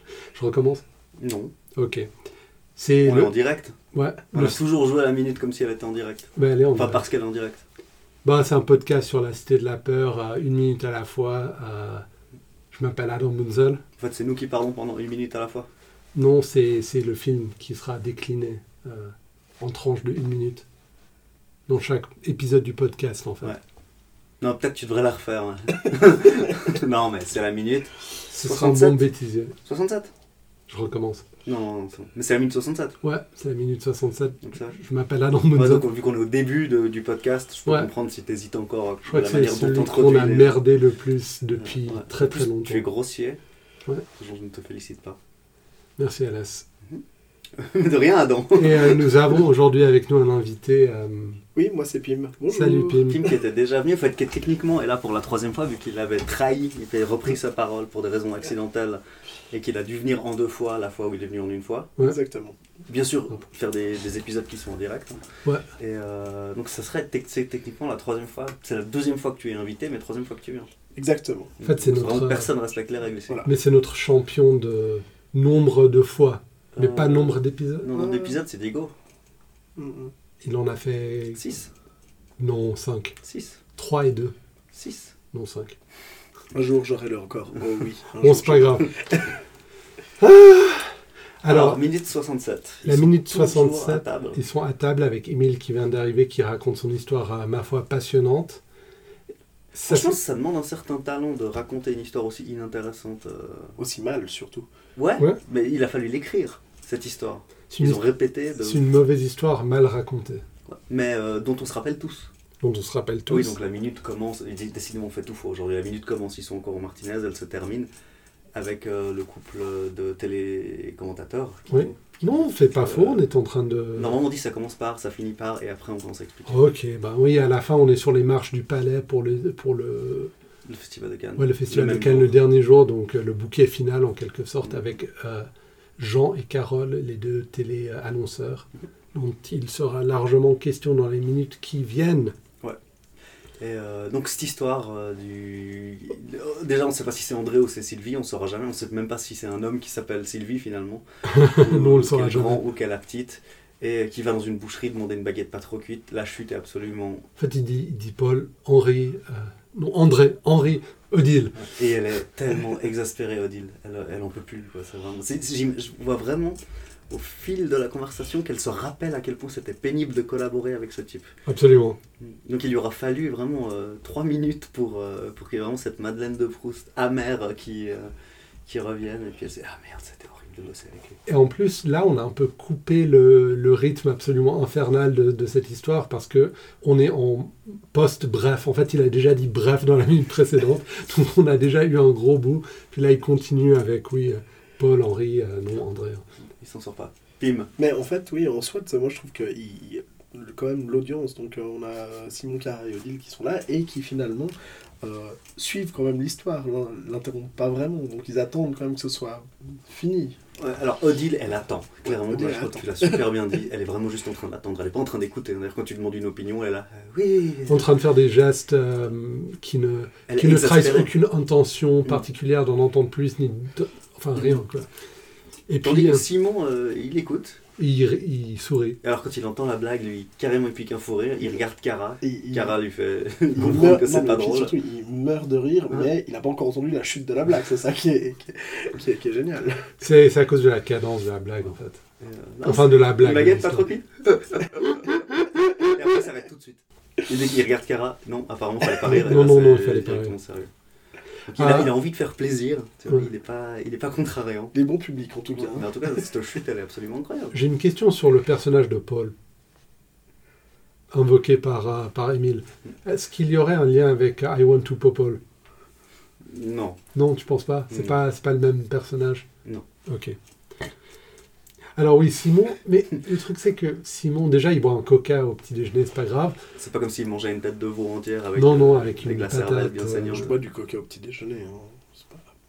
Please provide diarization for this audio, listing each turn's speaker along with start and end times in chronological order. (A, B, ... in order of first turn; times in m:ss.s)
0:00.3-0:00.8 A
0:01.2-0:01.5 B
0:01.8-0:02.1 A
0:02.8-0:03.4 A
0:03.0-0:03.8 B
0:03.9-0:04.6 A
0:04.3-0:07.6 B
0:06.4-0:07.0 A
0:08.2-0:12.1 A
0:12.7-0:13.8 A
0:14.0-0:15.7 B
0:16.2-0:20.6 A
0:21.7-0:23.5 A
0:24.4-0:29.1 B
0:28.3-0:29.6 A
0:29.6-0:30.1 B
0:30.7-0:31.2 A
0:31.4-0:33.0 B
0:33.0-0:35.8 A
0:34.4-0:34.8 B
0:35.5-0:40.5 B
0:39.0-0:42.8 A
0:41.6-0:43.4 B
0:44.2-0:45.2 B
0:46.0-0:46.7 A
0:47.6-0:49.4 B
0:48.6-0:51.4 A
0:51.6-0:53.2 C
0:52.5-0:53.2 A
0:53.1-1:01.9 B
1:02.0-1:02.6 C
1:02.9-1:05.2 B
1:05.8-1:10.7 B
1:11.0-1:11.5 C
1:11.6-1:13.4 B
1:11.6-1:12.5 A
1:13.4-1:17.9 A
1:16.7-1:18.9 B
1:17.9-1:18.4 C
1:19.8-1:20.1 C
1:20.4-1:21.4 A
1:21.4-1:21.7 B
1:22.4-1:23.2 A
1:23.2-1:23.6 B
1:23.8-1:24.4 A
1:24.7-1:25.1 B
1:25.3-1:25.8 A
1:26.5-1:29.3 C
1:28.2-1:28.9 A
1:30.2-1:31.8 A
1:31.5-1:34.4 B
1:32.8-1:38.6 A
1:39.7-1:40.2 A
1:39.9-1:43.8 B
1:43.8-1:44.7 C
1:45.0-1:48.9 B
1:47.7-1:48.1 A
1:48.6-1:50.4 A
1:50.7-1:52.3 B
1:52.6-1:53.6 A
1:53.3-1:57.9 B
1:58.5-2:03.2 B
2:01.7-2:04.2 A
2:04.0-2:06.7 B
2:06.5-2:10.3 A
2:10.6-2:12.4 B
2:11.4-2:22.4 A
2:14.6-2:15.0 B
2:23.6-2:37.3 B
2:31.3-2:32.6 A
2:37.4-2:41.7 A
2:41.6-2:46.6 B
2:47.1-2:51.3 B
2:51.5-2:52.0 A
2:52.2-2:58.1 B
2:58.7-3:01.2 B
3:01.3-3:16.2 A
3:16.6-3:17.7 B
3:17.8-3:30.4 C
3:30.6-3:37.9 B
3:32.1-3:33.2 C
3:37.7-3:44.9 A
3:40.3-3:41.1 B
3:45.7-3:46.2 A
3:45.8-3:47.6 B
3:47.8-3:49.0 A
3:49.0-3:54.7 B
3:52.2-3:52.8 C
3:53.6-4:00.0 C
4:00.0-4:02.0 A
4:02.2-4:10.7 B
4:02.6-4:03.9 A
4:09.0-4:10.3 A
4:11.5-4:14.8 B
4:11.6-4:11.9 A
4:14.7-4:16.2 C
4:15.6-4:17.6 B
4:17.5-4:19.3 A
4:21.1-4:25.4 A
4:26.4-4:27.0 B
4:27.2-4:29.5 A
4:30.1-4:30.4 A
4:32.0-4:36.6 A
4:36.8-4:40.5 B
4:38.6-4:40.5 A
4:40.3-4:42.4 C